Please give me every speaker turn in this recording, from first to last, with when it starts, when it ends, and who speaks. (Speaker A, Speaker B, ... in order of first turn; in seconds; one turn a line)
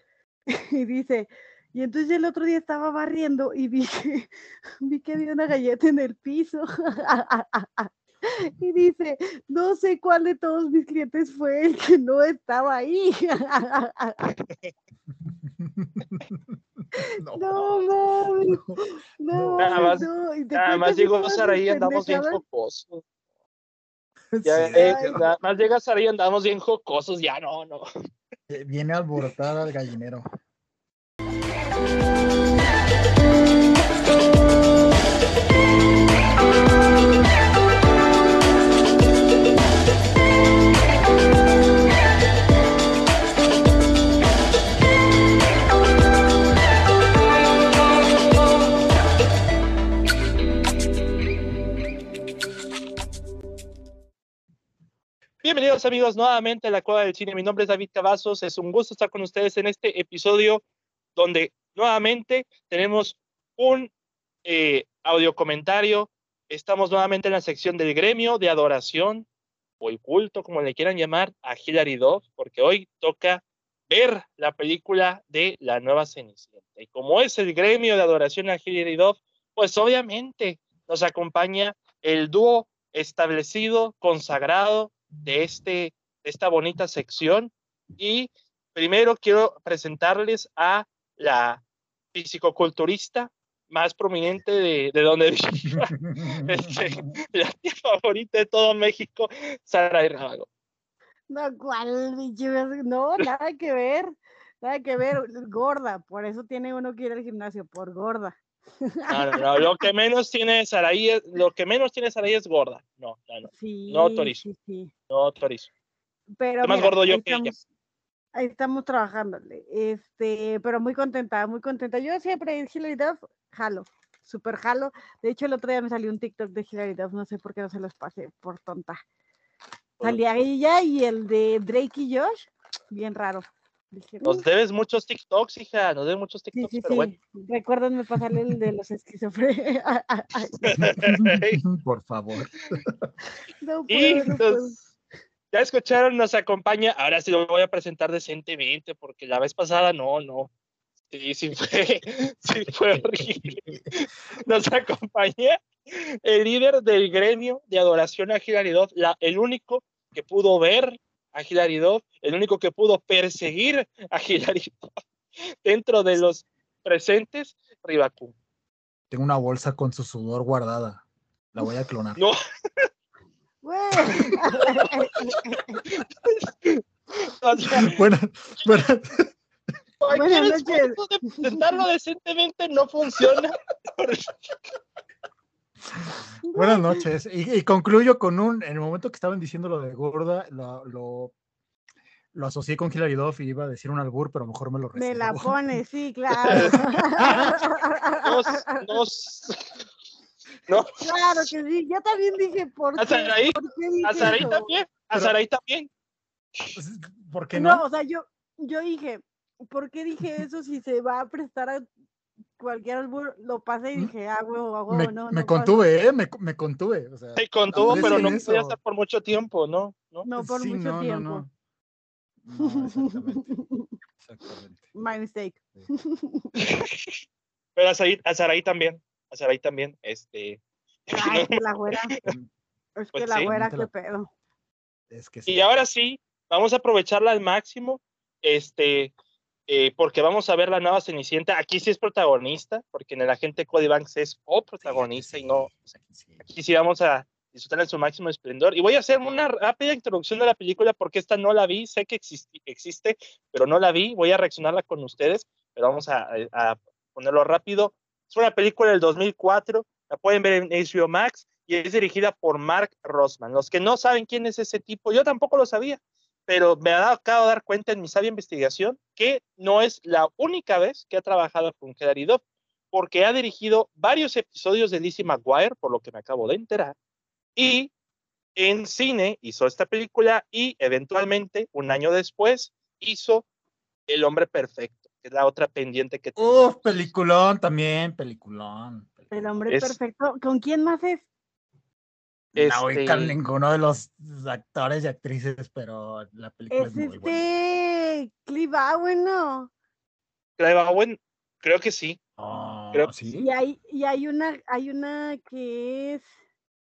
Speaker A: 0.5-4.3
Speaker A: 4.8-7.9
Speaker A: 8.6-14.3
Speaker B: 15.6-16.5
Speaker B: 17.2-17.8
Speaker A: 17.3-22.4
Speaker B: 18.5-18.8
Speaker B: 19.3-20.1
Speaker C: 19.6-23.0
Speaker B: 24.3-25.2
Speaker C: 24.4-27.9
Speaker A: 24.7-25.4
Speaker B: 28.5-30.2
Speaker C: 55.4-60.6
Speaker C: 61.2-63.9
Speaker C: 64.5-69.3
Speaker C: 69.8-91.6
Speaker C: 92.1-100.5
Speaker B: 96.0-97.1
Speaker A: 101.3-108.4
Speaker A: 109.0-109.7
Speaker C: 109.1-114.4
Speaker A: 113.5-114.9
Speaker C: 115.1-115.7
Speaker A: 116.4-117.6
Speaker C: 116.6-117.5
Speaker A: 118.3-129.0
Speaker A: 130.0-134.4
Speaker C: 134.2-137.1
Speaker A: 136.5-140.8
Speaker C: 140.6-141.6
Speaker B: 140.8-142.8
Speaker A: 143.6-144.9
Speaker C: 143.9-144.7
Speaker C: 145.5-150.5
Speaker C: 151.1-164.8
Speaker C: 165.6-168.3
Speaker B: 169.1-172.2
Speaker C: 172.2-172.9
Speaker A: 173.6-175.8
Speaker C: 174.6-174.9
Speaker C: 176.0-176.8
Speaker C: 177.4-178.0
Speaker B: 177.7-179.3
Speaker C: 180.0-184.6
Speaker A: 180.1-181.8
Speaker B: 186.0-191.3
Speaker A: 186.4-187.1
Speaker B: 192.3-195.7
Speaker A: 194.9-198.9
Speaker C: 196.5-196.8
Speaker B: 196.5-197.6
Speaker C: 198.2-199.6
Speaker C: 200.7-201.5
Speaker A: 201.0-204.7
Speaker C: 203.0-205.9
Speaker B: 204.2-204.5
Speaker B: 206.8-207.8
Speaker A: 207.5-211.8
Speaker A: 212.6-215.9
Speaker B: 214.9-218.8
Speaker C: 217.4-220.3
Speaker A: 217.8-218.4
Speaker A: 220.2-221.4
Speaker B: 220.4-221.5
Speaker B: 222.4-223.5
Speaker A: 222.6-223.9
Speaker B: 224.2-224.9
Speaker A: 224.9-226.6
Speaker C: 226.6-227.1
Speaker C: 227.8-231.6
Speaker A: 231.1-232.1
Speaker A: 233.0-234.3
Speaker C: 233.1-233.5
Speaker B: 233.5-233.9
Speaker B: 235.1-235.7
Speaker C: 235.5-239.1
Speaker C: 239.7-245.7
Speaker B: 244.8-246.4
Speaker C: 246.4-277.0
Speaker C: 277.6-277.9
Speaker C: 278.6-283.4
Speaker C: 284.1-286.8
Speaker B: 286.4-289.3
Speaker A: 289.3-291.2
Speaker C: 289.7-290.0
Speaker B: 292.5-297.4
Speaker C: 292.6-293.4
Speaker A: 296.7-299.7
Speaker C: 300.6-302.2
Speaker B: 302.4-303.5
Speaker A: 303.3-306.3